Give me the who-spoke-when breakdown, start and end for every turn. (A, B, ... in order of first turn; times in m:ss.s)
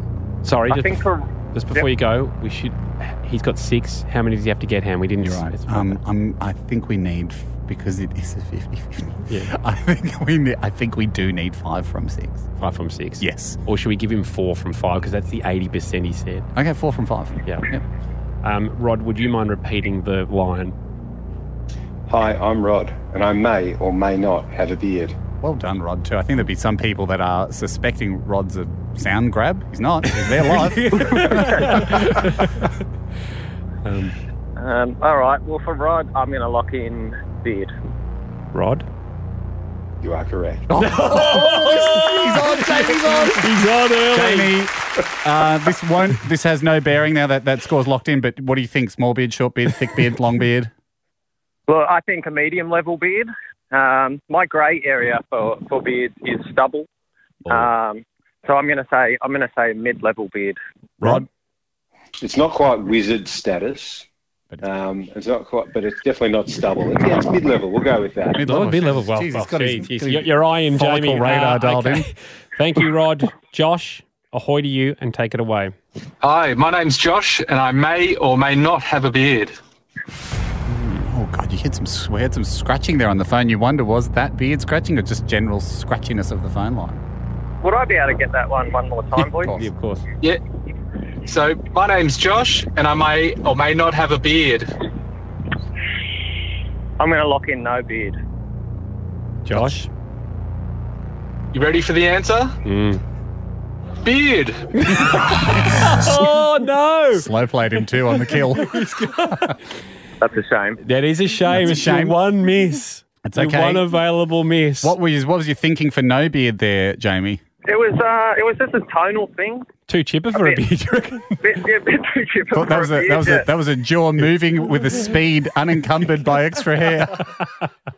0:00.4-0:06.0 A
0:00.7-0:01.8 B
0:05.2-0:12.4 C
0:12.6-0:16.5 A
0:13.2-0:13.6 C
0:16.5-0:17.8 C
0:18.4-0:20.7 A
0:22.1-0:25.2 D
0:25.4-0:32.1 C
0:30.1-0:32.7 A
0:33.8-0:34.1 A
0:34.6-0:37.7 B
0:38.5-0:38.9 A
0:40.0-0:40.7 D
0:40.7-0:43.5 C
0:40.8-0:44.5 A
0:44.1-0:50.7 C
0:51.7-0:56.9 B
0:57.5-1:00.6 B
1:01.0-1:01.2 A
1:01.0-1:01.2 C
1:02.2-1:04.0 D
1:04.6-1:08.4 D
1:08.3-1:12.1 C
1:08.4-1:15.8 A
1:16.2-1:19.6 E
1:20.7-1:21.1 A
1:21.0-1:27.0 C
1:27.6-1:29.5 B
1:29.2-1:30.0 A
1:29.4-1:29.6 C
1:31.2-1:34.7 E
1:37.0-1:38.2 B
1:39.4-1:39.9 A
1:39.5-1:39.8 C
1:41.5-1:42.6 E
1:42.6-1:43.0 A
1:44.0-1:44.7 E
1:44.8-1:47.3 A
1:47.1-1:48.9 C
1:48.3-1:49.5 A
1:50.2-1:50.8 B
1:50.8-1:54.9 A
1:51.5-1:52.2 C
1:53.2-1:53.9 C
1:54.8-1:57.4 C
1:57.6-1:59.7 B
1:59.9-2:01.4 A
2:00.3-2:00.6 B
2:01.4-2:03.4 B
2:02.5-2:07.2 C